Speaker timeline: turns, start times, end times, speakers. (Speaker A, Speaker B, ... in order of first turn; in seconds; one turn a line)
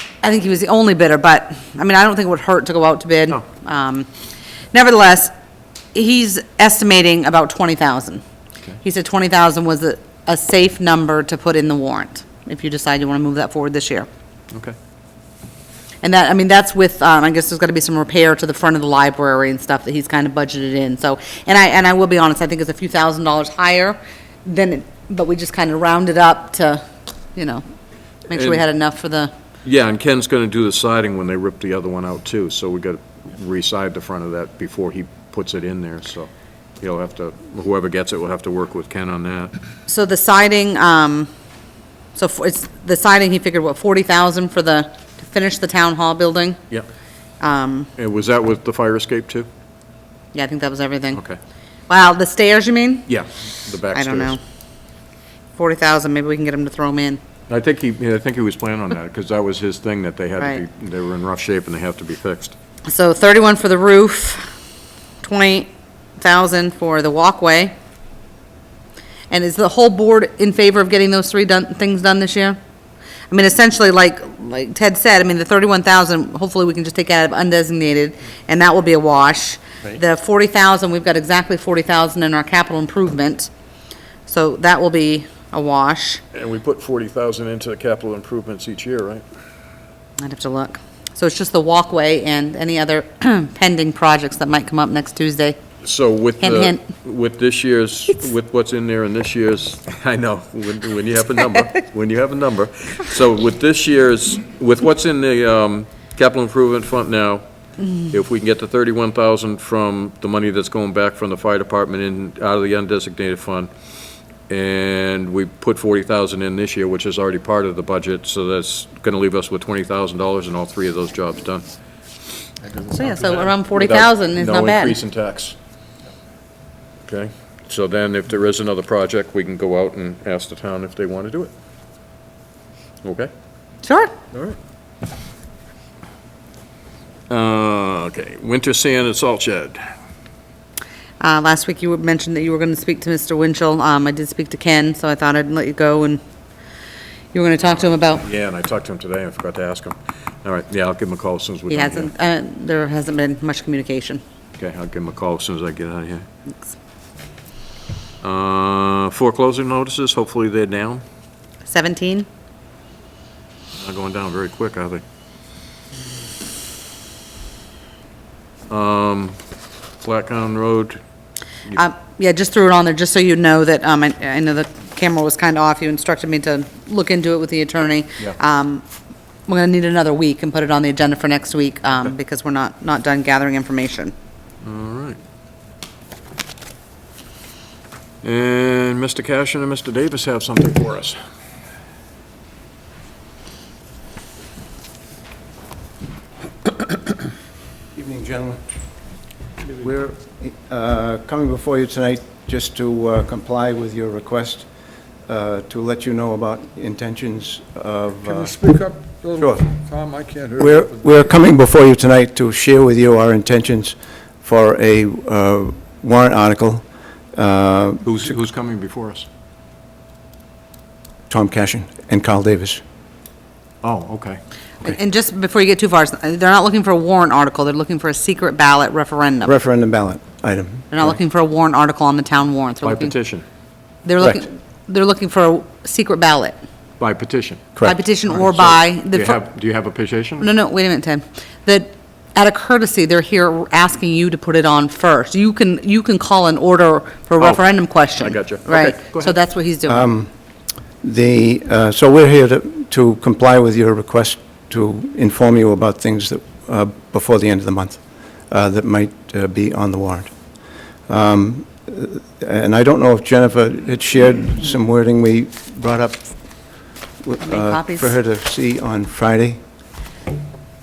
Speaker A: 0.2-4.1
Speaker A: 4.7-5.3
Speaker A: 5.9-8.2
Speaker A: 8.8-14.1
Speaker A: 16.0-26.8
Speaker A: 27.4-27.6
Speaker A: 28.3-29.3
Speaker B: 28.3-28.6
Speaker B: 29.6-36.3
Speaker B: 36.8-39.5
Speaker A: 39.9-41.3
Speaker A: 42.1-46.6
Speaker A: 47.4-47.9
Speaker B: 48.0-49.5
Speaker A: 50.3-51.2
Speaker A: 51.9-53.1
Speaker B: 53.1-54.4
Speaker A: 53.9-54.4
Speaker A: 55.6-57.2
Speaker B: 57.5-62.5
Speaker A: 62.9-64.5
Speaker A: 65.2-67.7
Speaker A: 69.3-72.6
Speaker A: 73.3-83.5
Speaker A: 84.3-86.2
Speaker B: 86.3-89.2
Speaker A: 90.2-95.6
Speaker B: 95.8-113.7
Speaker A: 96.4-96.8
Speaker B: 114.5-121.7
Speaker A: 122.9-125.0
Speaker B: 123.7-125.5
Speaker B: 127.1-131.5
Speaker B: 133.0-133.3
Speaker A: 133.8-134.1
Speaker B: 137.3-139.8
Speaker A: 141.2-146.2
Speaker A: 147.3-148.2
Speaker B: 148.2-152.1
Speaker A: 151.7-154.2
Speaker B: 154.6-156.2
Speaker B: 158.2-161.0
Speaker A: 161.7-162.3
Speaker B: 163.8-165.0
Speaker B: 168.7-169.4
Speaker B: 170.0-171.0
Speaker A: 171.7-178.8
Speaker A: 179.5-184.1
Speaker B: 184.6-185.2
Speaker B: 188.2-191.2
Speaker C: 197.9-198.6
Speaker C: 199.7-204.7
Speaker C: 205.3-208.6
Speaker D: 208.3-210.7
Speaker C: 209.4-209.8
Speaker C: 210.5-216.8
Speaker C: 217.3-218.1
Speaker B: 218.0-219.3
Speaker C: 221.3-222.8
Speaker B: 223.8-224.4
Speaker A: 224.8-229.5
Speaker C: 229.4-231.1
Speaker A: 230.9-233.1
Speaker B: 232.8-233.4
Speaker A: 234.1-236.6
Speaker B: 237.0-237.7
Speaker C: 237.8-238.1
Speaker A: 237.8-239.4
Speaker B: 238.6-240.5
Speaker A: 240.4-250.1
Speaker B: 248.2-249.3
Speaker C: 249.9-250.3
Speaker C: 251.0-260.3
Speaker C: 261.1-266.3
Speaker C: 267.2-269.6
Speaker A: 267.4-268.1